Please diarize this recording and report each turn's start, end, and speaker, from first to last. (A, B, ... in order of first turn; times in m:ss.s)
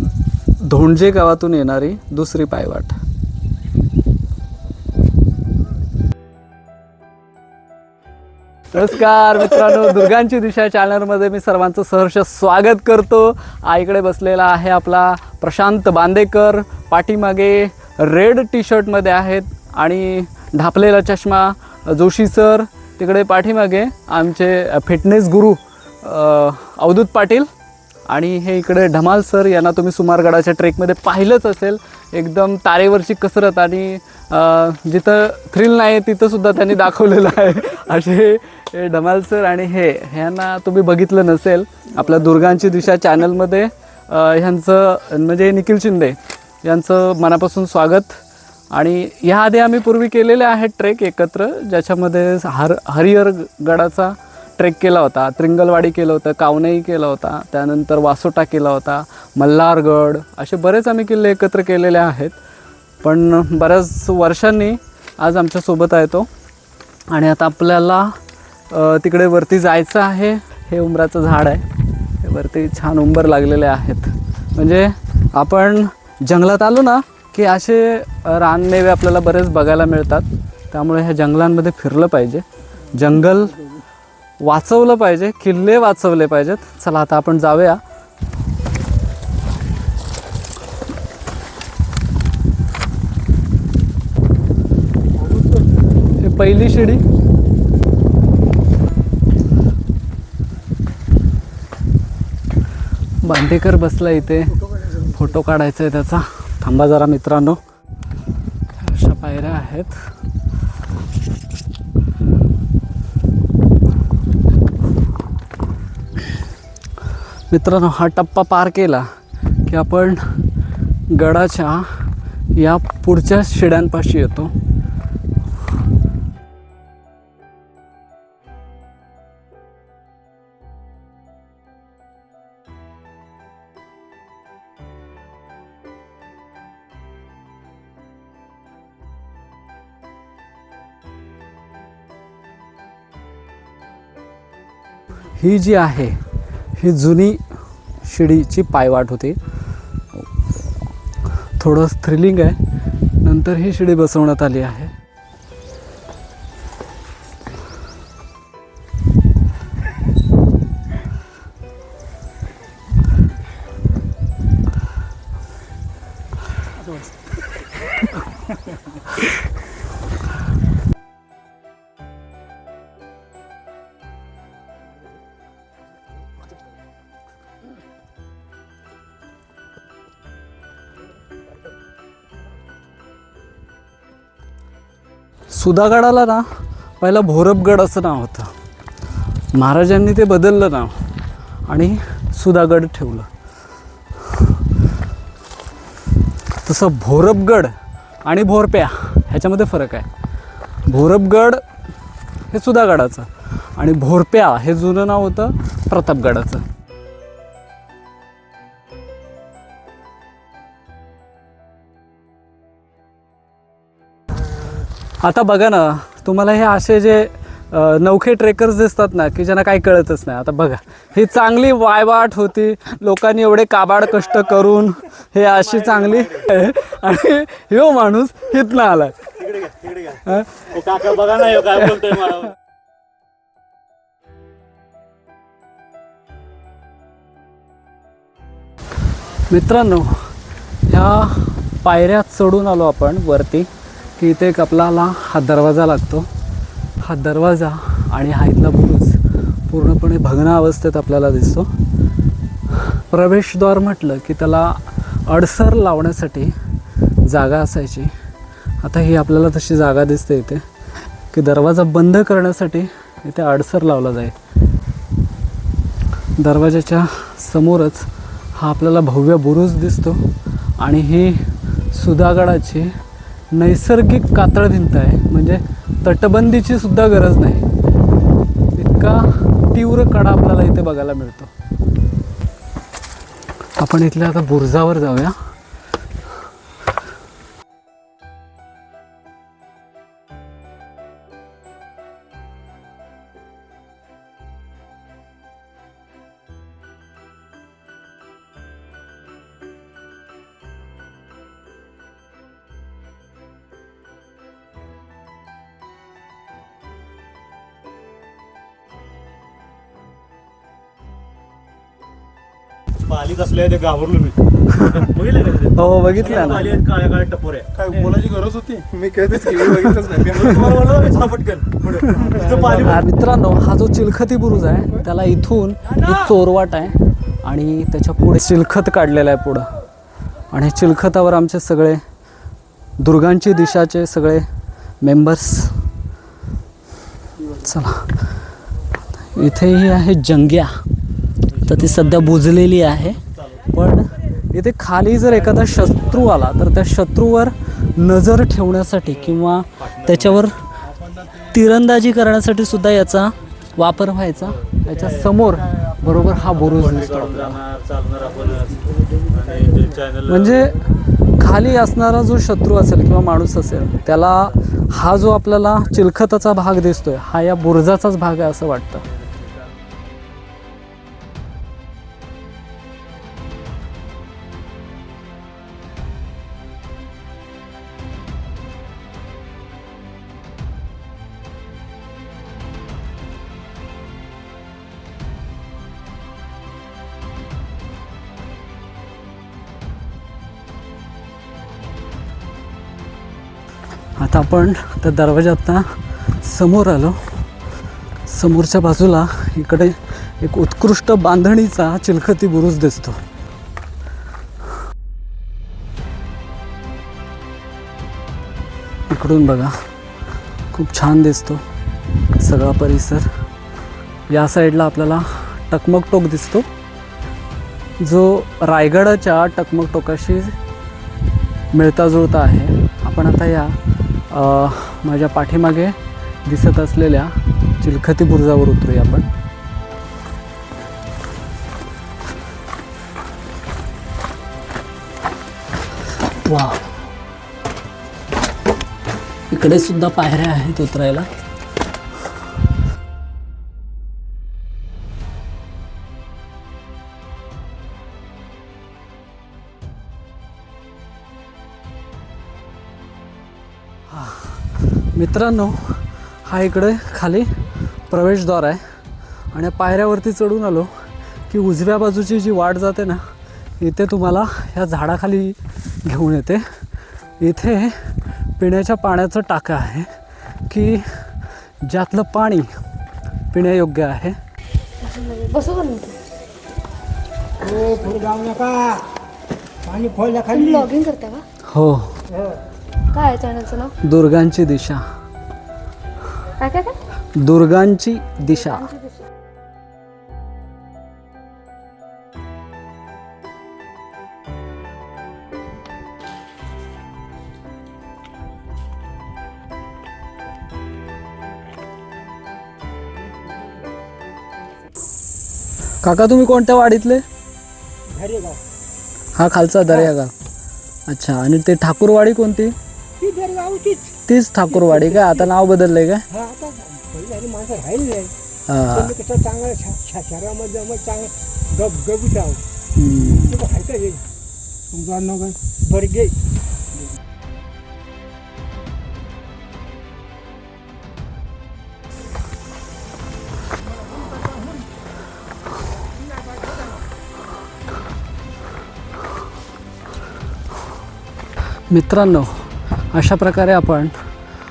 0:00.6-0:03.0 A
0:08.7-0:27.5 A
0:28.1-0:48.2 A
0:48.7-1:02.4 A
1:03.0-1:06.3 A
1:07.1-1:08.2 A
1:08.7-1:11.6 A
1:12.2-1:23.6 A
1:24.4-1:27.8 A
1:35.2-1:35.7 B
1:36.2-1:37.0 A
1:43.2-1:47.6 A
1:48.8-1:50.0 A
1:57.5-1:59.1 A
1:59.7-2:00.2 A
2:01.1-2:04.6 A
2:25.4-2:26.2 A
2:26.8-2:27.4 A
2:28.0-2:29.4 A
2:31.6-2:32.6 A
2:33.2-2:34.9 A
3:05.5-3:06.4 A
3:07.0-3:08.5 A
3:09.5-3:11.0 A
3:11.7-3:13.3 A
3:16.6-3:17.7 A
3:18.2-3:20.1 A
3:20.9-3:21.6 A
3:22.5-3:26.6 A
3:35.2-3:49.4 A
3:45.5-3:46.5 C
3:49.4-3:52.5 C
3:50.3-3:50.6 A
3:59.5-4:00.3 A
4:00.9-4:06.3 A
4:07.0-4:11.7 A
4:12.8-4:16.6 A
4:17.2-4:18.1 A
4:18.8-4:20.6 A
4:21.3-4:24.4 A
4:26.4-4:30.2 A
4:30.8-4:32.9 A
4:33.5-4:37.7 A
4:38.8-4:41.5 A
4:43.8-4:45.4 A
5:13.1-5:18.1 C
5:14.8-5:15.0 A
5:15.8-5:16.8 A
5:17.8-5:20.9 D
5:19.6-5:23.0 C
5:22.6-5:29.7 A
5:30.5-5:32.0 A
5:33.0-5:34.5 A
5:35.0-5:35.8 A
5:37.5-5:38.2 A
5:39.3-5:40.7 A
5:41.5-5:42.4 C
5:41.7-5:43.2 A
5:43.4-5:43.6 C
5:43.7-5:50.6 A
5:49.8-5:50.4 C
5:51.5-5:57.6 A
5:54.7-5:55.3 C
5:56.4-6:00.7 C
5:58.5-6:00.0 B
6:00.2-6:00.8 A
6:01.4-6:09.0 A
6:34.2-6:37.2 A
6:38.3-6:43.2 A
6:49.1-6:49.7 A
6:50.7-6:51.6 A
6:52.4-6:53.3 A
6:54.3-6:56.7 A
6:58.0-7:00.6 A
7:01.7-7:09.3 A
7:16.4-7:16.9 A
7:19.5-7:21.3 A
7:34.1-7:34.6 A
7:35.1-7:37.5 A
7:38.1-7:38.8 A
7:39.5-7:40.9 A
7:41.5-7:43.2 A
7:43.8-7:46.6 A
7:47.4-7:48.0 A
7:48.6-7:50.1 A
7:50.7-7:51.1 A
7:51.8-7:52.7 A
7:53.5-7:54.4 A
7:55.0-7:56.2 E
7:57.6-7:59.2 B
7:59.8-8:01.0 B
8:00.5-8:01.5 E
8:01.7-8:02.2 A
8:02.3-8:02.6 B
8:03.1-8:03.9 E
8:04.0-8:05.0 A
8:06.6-8:07.0 E
8:07.4-8:08.9 A
8:08.5-8:09.3 E
8:26.0-8:27.2 A
8:28.1-8:28.6 B
8:29.4-8:30.3 A
8:31.1-8:32.7 A
8:33.2-8:34.2 B
8:34.3-8:36.2 A
8:34.7-8:35.5 B
8:36.3-8:38.3 B
8:38.7-8:39.2 A
8:38.9-8:42.6 B
8:43.0-8:43.6 A
8:43.4-8:44.2 B
8:44.9-8:46.3 B
9:01.9-9:04.2 A